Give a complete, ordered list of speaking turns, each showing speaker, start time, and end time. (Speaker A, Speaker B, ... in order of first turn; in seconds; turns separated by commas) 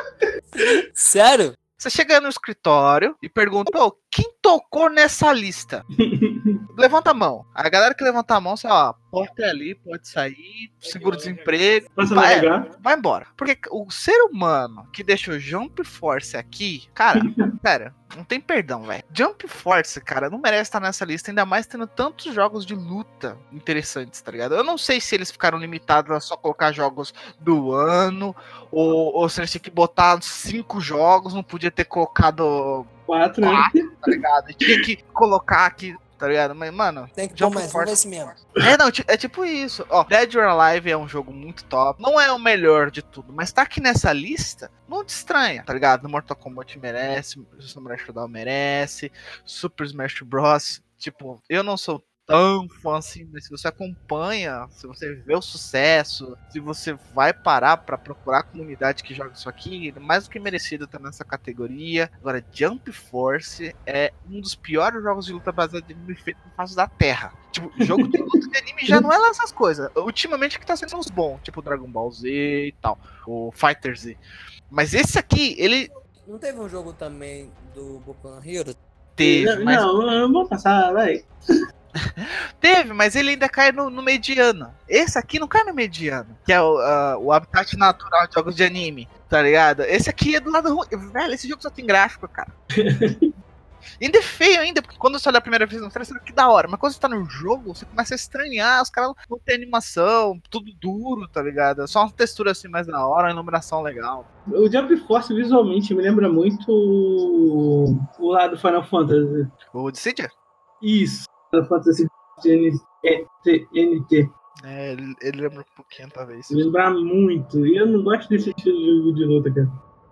Speaker A: 0.6-1.5, Speaker B: 1.8-5.8, Speaker C: 6.0-6.6, Speaker B: 6.7-32.9, Speaker C: 12.0-12.7, Speaker C: 17.2-17.4, Speaker C: 33.1-34.1, Speaker B: 33.4-75.9, Speaker A: 37.1-38.3, Speaker C: 67.8-68.2, Speaker A: 76.2-78.8, Speaker B: 79.2-79.8, Speaker C: 79.2-81.3, Speaker B: 82.0-92.5, Speaker C: 92.8-93.3, Speaker B: 94.0-104.2, Speaker C: 104.5-109.5, Speaker B: 109.7-110.3, Speaker C: 110.8-114.3, Speaker B: 114.6-116.6, Speaker C: 116.5-119.7